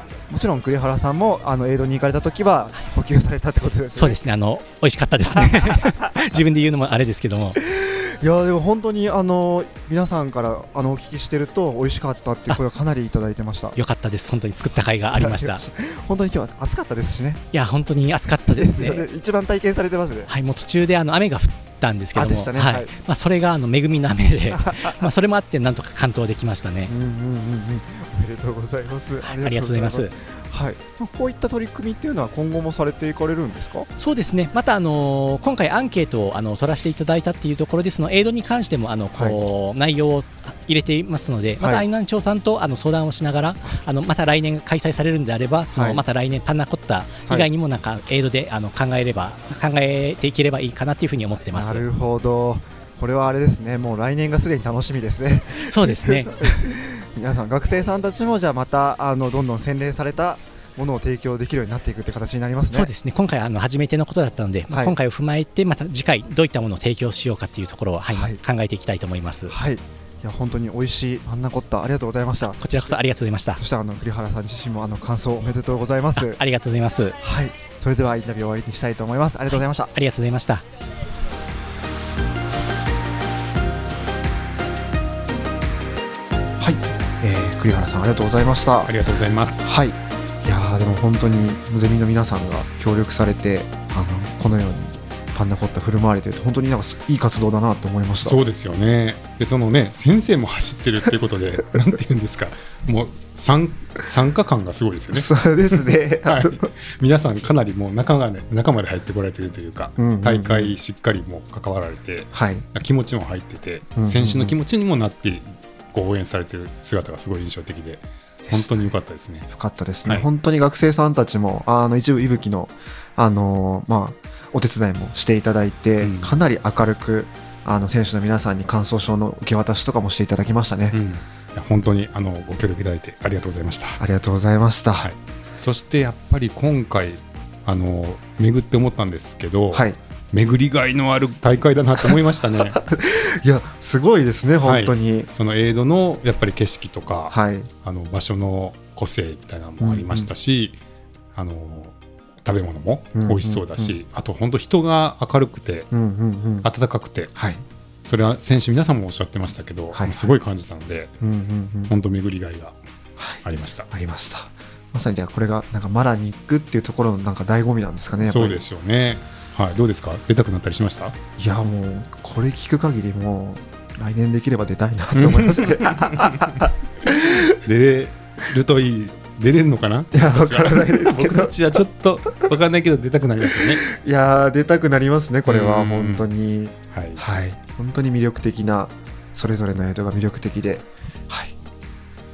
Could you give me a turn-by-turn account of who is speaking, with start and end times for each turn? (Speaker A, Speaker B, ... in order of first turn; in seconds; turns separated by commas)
Speaker A: 0.3-4.2, Speaker B: 4.0-7.6, Speaker A: 5.3-6.4, Speaker A: 7.6-13.8, Speaker B: 13.8-15.6, Speaker A: 15.1-17.4, Speaker B: 17.5-19.1, Speaker A: 18.4-20.3, Speaker B: 20.3-26.9, Speaker A: 22.1-22.9, Speaker A: 24.5-25.1, Speaker A: 26.9-33.9, Speaker B: 29.2-30.1, Speaker B: 34.0-51.8, Speaker A: 41.6-41.9, Speaker A: 45.7-46.0, Speaker A: 51.5-62.9, Speaker B: 55.7-56.7, Speaker B: 62.7-69.6, Speaker A: 64.7-65.0, Speaker A: 68.1-68.4, Speaker A: 69.5-72.9, Speaker B: 72.6-73.6, Speaker A: 73.6-76.4, Speaker B: 76.1-77.2, Speaker A: 77.2-79.9, Speaker B: 79.5-80.6, Speaker A: 86.6-88.9, Speaker C: 88.8-89.6, Speaker A: 89.6-98.4, Speaker C: 98.2-119.5, Speaker A: 105.1-106.7, Speaker A: 110.0-110.7, Speaker A: 112.3-112.6, Speaker A: 114.0-114.5, Speaker A: 118.4-131.0, Speaker C: 126.0-126.3, Speaker C: 130.9-134.0, Speaker A: 134.0-135.1, Speaker C: 135.0-142.8, Speaker A: 139.7-140.0, Speaker A: 141.9-145.3, Speaker C: 144.6-150.8, Speaker A: 147.3-147.7, Speaker A: 149.8-150.3, Speaker C: 151.3-155.9, Speaker A: 153.2-153.9, Speaker A: 155.9-156.7, Speaker C: 156.6-157.3, Speaker A: 157.3-157.6, Speaker C: 158.1-161.1, Speaker A: 159.9-160.3, Speaker A: 161.2-161.9, Speaker C: 161.9-162.8, Speaker A: 163.2-168.6, Speaker C: 163.4-163.9, Speaker C: 168.2-171.2, Speaker A: 171.4-177.6, Speaker C: 175.1-176.6, Speaker C: 177.6-183.9, Speaker A: 180.1-181.8, Speaker A: 183.5-191.5, Speaker C: 185.4-186.2, Speaker C: 186.9-187.2